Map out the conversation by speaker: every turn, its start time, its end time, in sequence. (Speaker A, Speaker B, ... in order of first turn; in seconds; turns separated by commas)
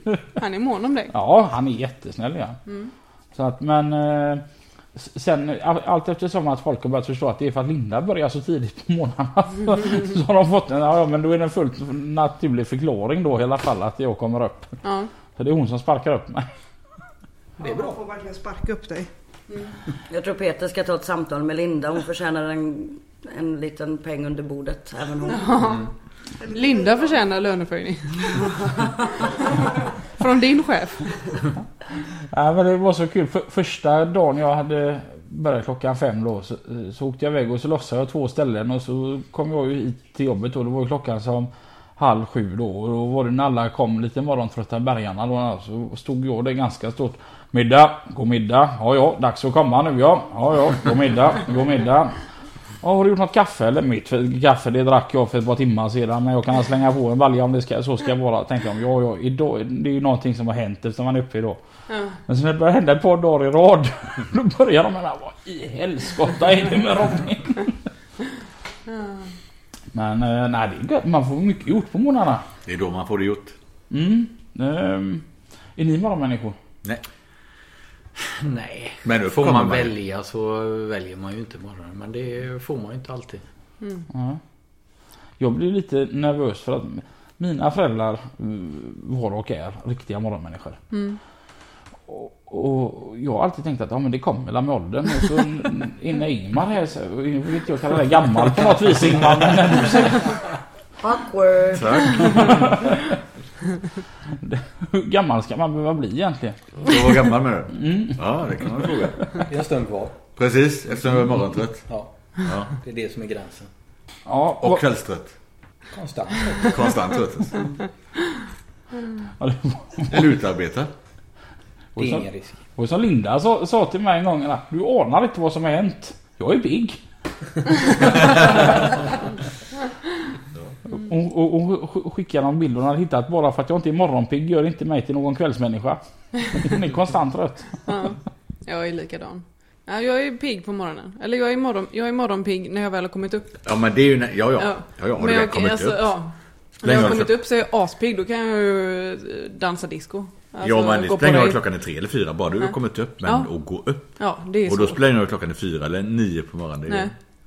Speaker A: 0.3-1.1, Speaker B: 1.1-2.6, Speaker B: 3.3-4.4, Speaker B: 5.0-14.8, Speaker A: 14.8-15.1, Speaker B: 15.3-16.5, Speaker C: 17.6-18.0, Speaker D: 17.6-19.1, Speaker E: 20.1-25.6, Speaker A: 25.3-25.8, Speaker A: 26.4-28.8, Speaker D: 26.4-26.8, Speaker A: 30.2-31.1, Speaker B: 32.3-52.2, Speaker B: 52.8-61.6, Speaker A: 61.9-62.1, Speaker B: 62.3-67.7, Speaker B: 69.9-72.4, Speaker F: 72.6-73.5, Speaker B: 73.9-75.2, Speaker B: 75.8-76.6, Speaker C: 78.3-83.4, Speaker F: 79.0-79.9, Speaker B: 84.1-84.4, Speaker B: 85.4-90.8, Speaker A: 90.9-91.2, Speaker B: 92.1-100.3, Speaker E: 101.0-102.4, Speaker F: 101.7-102.6, Speaker B: 102.5-103.0, Speaker B: 104.4-106.6, Speaker F: 106.8-109.3, Speaker B: 107.7-108.2, Speaker C: 109.5-110.2, Speaker F: 110.3-111.9, Speaker C: 111.9-113.7, Speaker F: 112.4-112.7, Speaker B: 114.2-114.8, Speaker F: 114.6-115.3, Speaker C: 115.9-116.8, Speaker F: 116.6-117.6, Speaker B: 119.4-120.2, Speaker F: 120.1-120.9, Speaker B: 122.0-127.0, Speaker C: 122.0-122.6, Speaker B: 127.9-128.6, Speaker B: 130.9-137.8, Speaker A: 137.9-143.6, Speaker F: 143.6-146.1, Speaker A: 144.6-151.6, Speaker F: 146.8-147.3, Speaker F: 150.6-154.1, Speaker A: 154.2-155.0, Speaker F: 154.6-157.1